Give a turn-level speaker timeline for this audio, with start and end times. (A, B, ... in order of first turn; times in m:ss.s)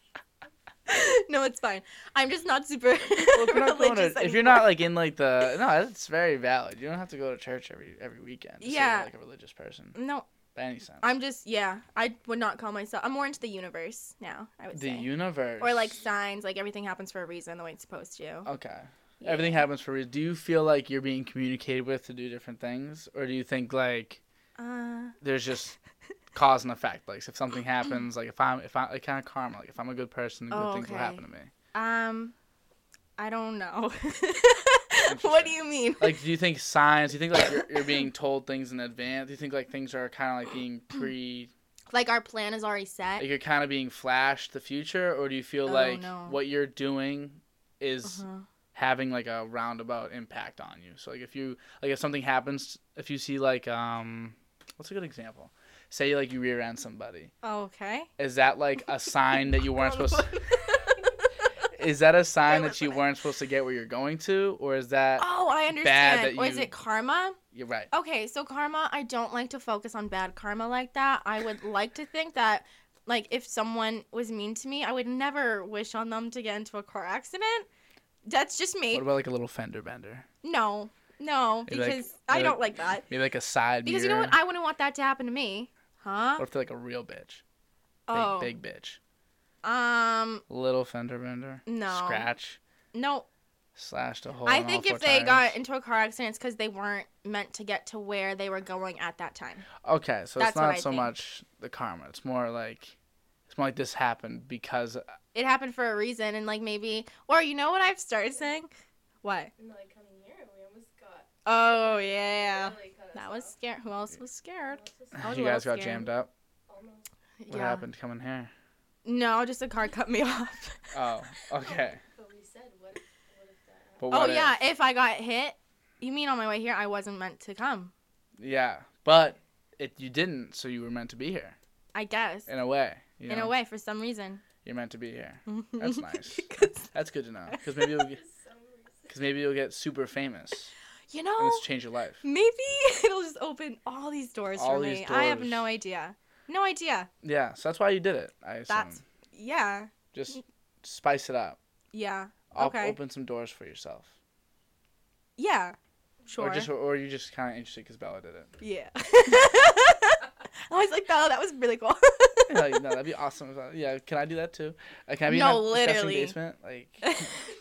0:00.9-0:04.8 A
0:03.3-0:10.0 B
0:08.6-0:09.1 A
0:10.0-0:10.3 A
0:10.6-0:11.1 B
0:11.0-0:18.5 A
0:14.7-0:16.0 B
0:18.4-0:24.2 B
0:19.2-0:19.6 A
0:24.6-0:25.2 A
0:25.2-0:25.8 B
0:26.3-0:31.5 B
0:30.5-0:31.2 A
0:31.7-0:32.3 A
0:33.2-0:36.2 A
0:35.0-0:41.5 B
0:41.9-0:43.3 A
0:43.2-0:57.3 B
0:45.7-0:46.4 A
0:48.0-0:48.4 A
0:57.4-0:58.1 A
0:58.2-1:00.4 B
0:59.7-1:01.1 A
1:01.7-1:06.7 B
1:02.5-1:02.9 A
1:05.2-1:07.4 A
1:07.5-1:07.9 B
1:07.9-1:17.7 A
1:18.3-1:19.1 A
1:18.9-1:20.3 B
1:20.4-1:23.0 A
1:21.7-1:24.4 B
1:23.8-1:26.4 A
1:26.4-1:27.4 B
1:28.1-1:28.5 A
1:28.1-1:29.0 B
1:29.6-1:30.4 A
1:30.5-1:32.6 B
1:31.7-1:32.3 A
1:32.9-1:33.3 A
1:33.8-1:35.6 B
1:34.4-1:39.7 A
1:39.8-1:43.0 B
1:40.4-1:41.1 A
1:43.5-1:45.0 B
1:45.3-1:48.7 A
1:49.2-1:49.5 A
1:49.6-1:53.6 C
1:51.4-1:56.1 A
1:54.7-1:55.3 C
1:55.2-1:56.3 B
1:56.7-1:57.1 C
1:57.4-1:57.8 A
1:57.5-1:58.5 B
1:59.0-2:00.9 A
2:00.9-2:02.0 B
2:01.6-2:04.3 C
2:04.0-2:04.6 B
2:04.1-2:07.9 A
2:08.4-2:11.6 B
2:11.9-2:12.5 A
2:12.5-2:13.5 B
2:13.3-2:14.4 A
2:14.6-2:18.2 B
2:15.5-2:16.9 A
2:17.5-2:18.0 A
2:17.9-2:19.1 C
2:19.1-2:20.7 B
2:21.1-2:21.7 A
2:21.4-2:22.2 B
2:22.2-2:27.1 A
2:24.6-2:25.7 B
2:27.2-2:29.0 B
2:28.7-2:30.4 A
2:30.1-2:31.6 B
2:31.9-2:33.0 A
2:32.5-2:34.1 B
2:35.4-2:35.8 A
2:36.3-2:36.7 A
2:36.4-2:38.5 B
2:38.6-2:42.9 A
2:42.5-2:47.3 B
2:45.3-2:46.4 A
2:47.0-2:47.3 A